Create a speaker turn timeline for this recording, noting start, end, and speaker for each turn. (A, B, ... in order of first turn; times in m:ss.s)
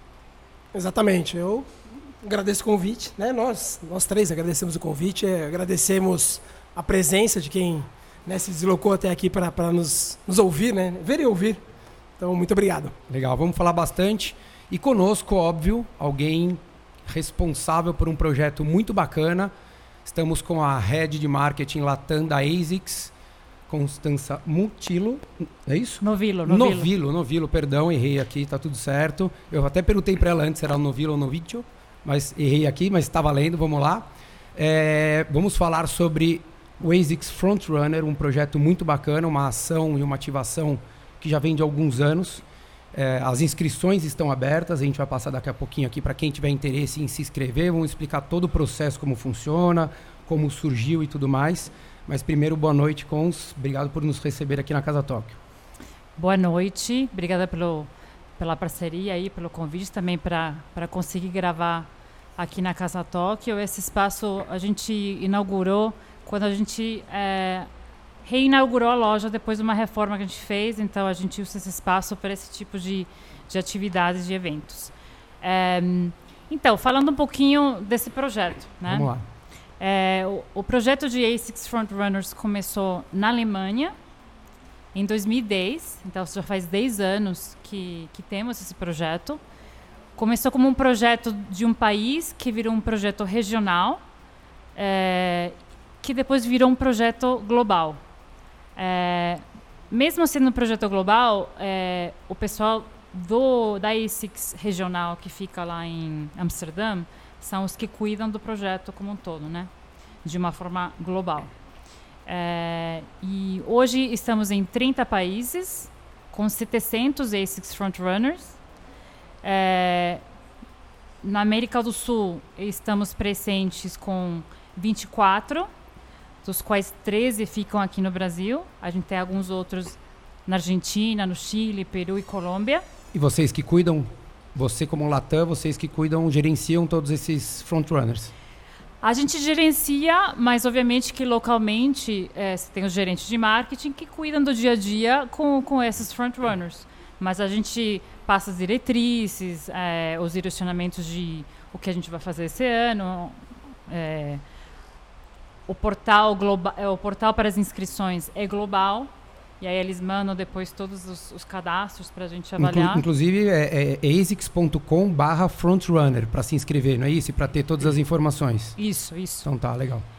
0:00.7-0:01.7 A
0:02.2-0:11.6 A
0:12.2-0:13.0 A
0:13.1-0:19.5 B
0:20.0-0:23.1 B
0:23.7-0:55.4 B
0:26.0-0:26.9 C
0:56.2-1:07.7 C
1:08.2-1:19.1 C
1:18.8-1:19.2 B
1:19.8-1:23.9 C
1:24.9-1:29.4 C
1:30.2-1:34.0 C
1:34.8-1:38.0 C
1:38.8-1:49.7 C
1:50.2-1:51.5 C
1:52.2-1:58.6 C
1:59.4-2:00.2 C
2:01.2-2:05.7 C
2:06.4-2:12.8 C
2:13.1-2:18.3 B
2:19.0-2:34.4 C
2:35.7-2:43.0 C
2:42.6-2:48.8 B
2:48.8-2:49.5 C
2:49.4-2:50.0 B